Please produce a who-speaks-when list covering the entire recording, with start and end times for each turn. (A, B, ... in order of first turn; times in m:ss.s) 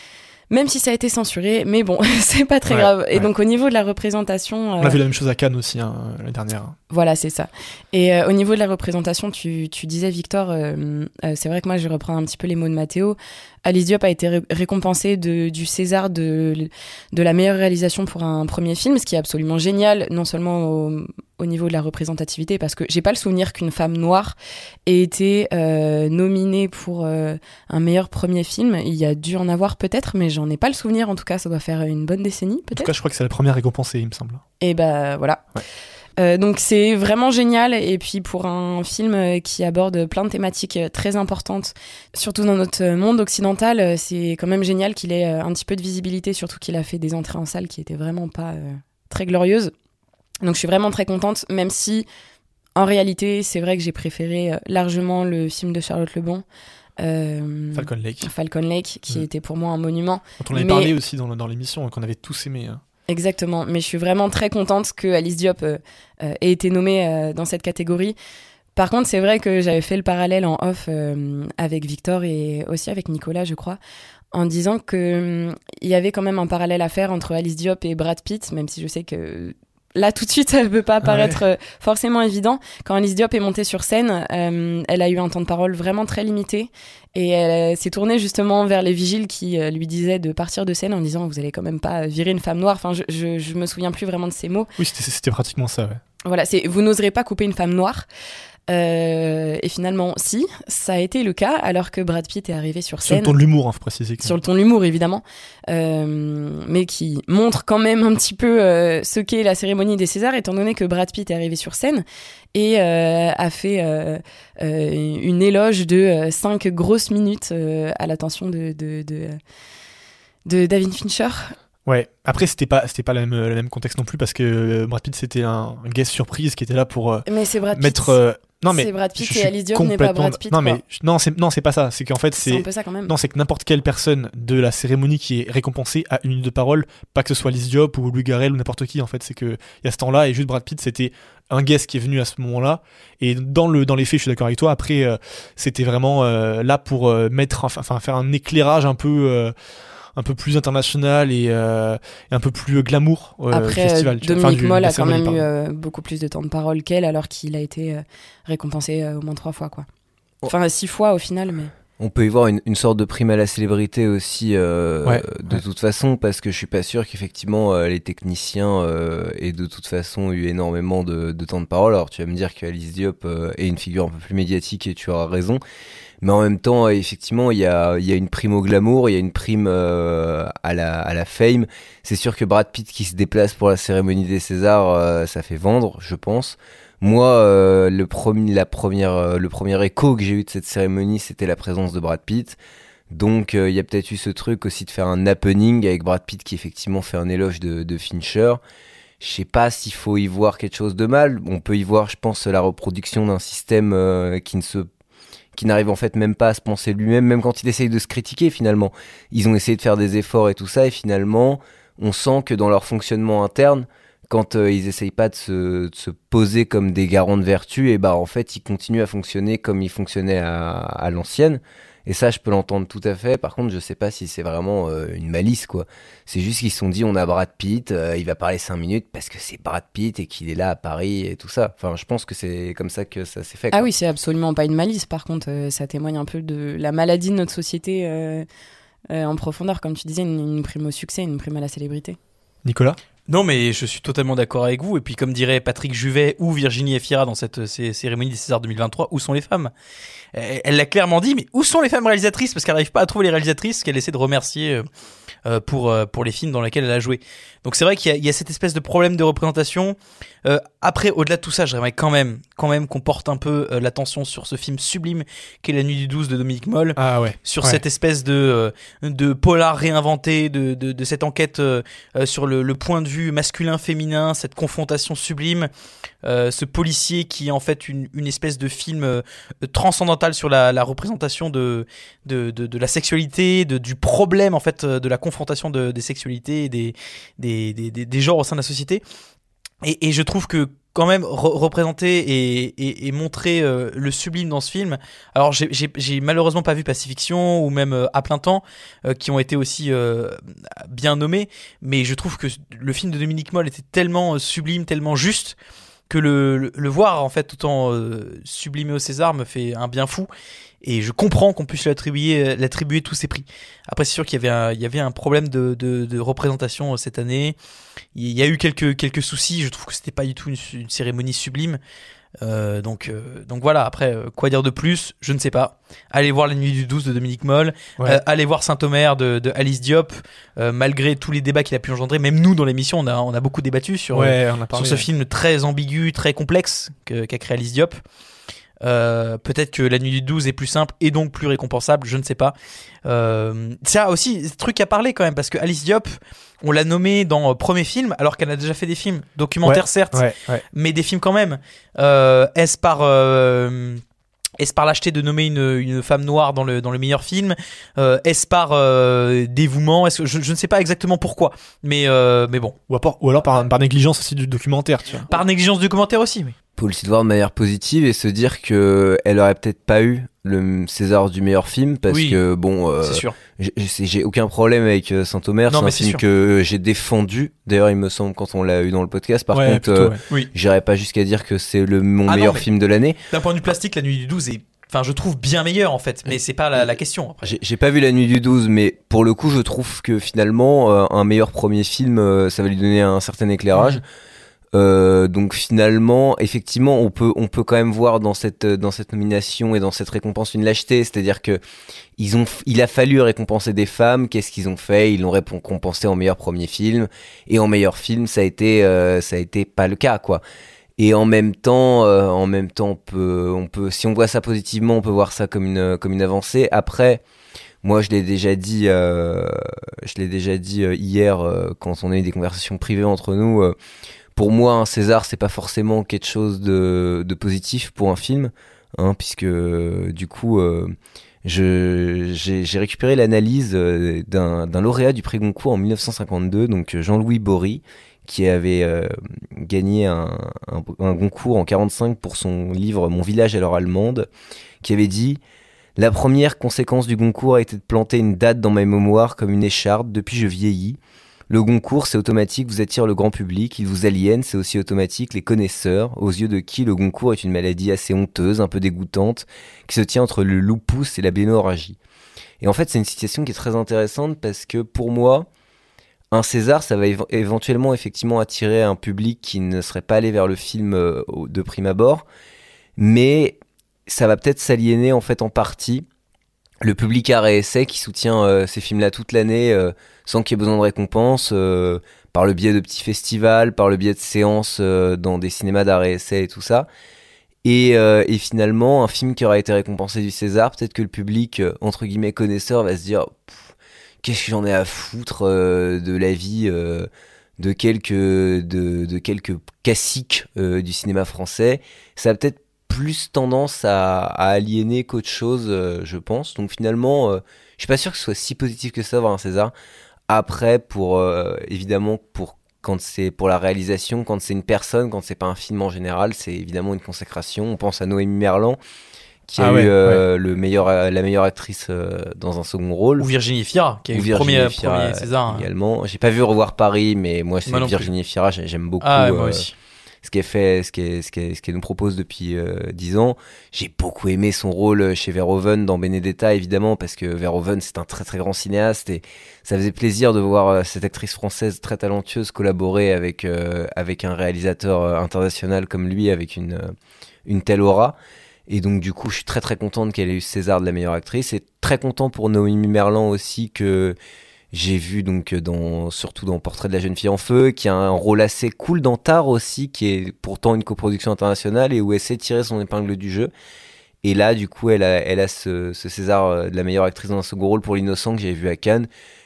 0:00.5-0:05.0 A
0:02.7-0:03.3 B
0:04.8-0:06.8 B
0:06.9-0:24.3 A
0:24.9-0:32.9 A
0:32.7-0:34.4 B
0:34.6-0:35.5 A
0:36.2-0:49.7 A
0:50.4-0:52.1 A
0:52.8-0:56.4 A
0:57.0-1:00.9 A
0:57.7-0:58.3 B
1:00.4-1:02.8 B
1:03.1-1:08.2 A
1:08.8-1:13.8 A
1:14.3-1:34.7 A
1:21.0-1:21.4 B
1:34.8-1:36.0 B
1:36.2-1:38.0 A
1:38.7-1:43.3 A
1:43.0-1:44.3 B
1:44.2-1:52.0 A
1:52.5-1:59.4 A
2:00.4-2:01.5 A
2:01.8-2:29.5 B
2:07.2-2:10.8 A
2:12.4-2:13.1 A
2:30.2-2:35.4 B
2:33.5-2:39.8 A
2:40.5-2:41.7 A
2:42.0-2:55.6 C
2:45.0-2:45.6 B
2:56.2-3:12.6 C
3:13.1-3:18.6 C
3:19.2-3:24.9 C
3:25.5-3:53.9 C
3:53.7-3:58.4 A
3:59.1-4:02.2 A
4:02.6-4:03.0 B
4:03.3-4:09.7 D
4:10.3-4:14.8 D
4:15.4-4:35.7 D
4:27.0-4:27.8 B
4:36.2-4:49.0 D
4:49.8-5:05.6 D
5:06.1-5:10.3 D
5:10.8-5:17.6 D
5:18.1-5:21.8 D
5:22.4-5:38.0 D
5:34.1-5:35.0 B
5:38.8-5:54.0 D
5:49.6-5:50.6 B
5:54.6-6:02.8 D
6:02.9-6:05.3 B
6:05.3-6:06.5 D
6:06.8-6:23.2 C
6:12.1-6:12.4 D
6:13.0-6:13.4 D
6:15.7-6:16.2 D
6:19.5-6:20.2 B
6:22.3-6:22.6 D
6:23.3-6:27.5 D
6:27.4-6:34.0 C
6:34.7-6:41.6 C
6:42.2-6:50.4 C
6:51.0-6:57.2 C
6:57.8-7:03.7 C
7:04.3-7:24.3 C
7:24.8-7:25.4 C
7:26.0-7:31.0 C
7:31.5-7:42.0 C
7:42.6-7:45.5 C
7:46.3-7:52.2 C
7:53.0-7:56.0 C
7:56.8-8:06.9 C
8:07.6-8:29.7 C
8:30.3-8:38.8 C
8:39.5-8:43.3 C
8:39.6-8:40.2 B
8:43.2-8:45.7 D
8:44.1-8:49.6 C
8:47.6-8:48.1 D
8:49.0-8:49.7 D
8:50.2-9:06.9 C
9:07.4-9:14.2 C
9:14.7-9:23.5 C
9:24.2-9:29.1 C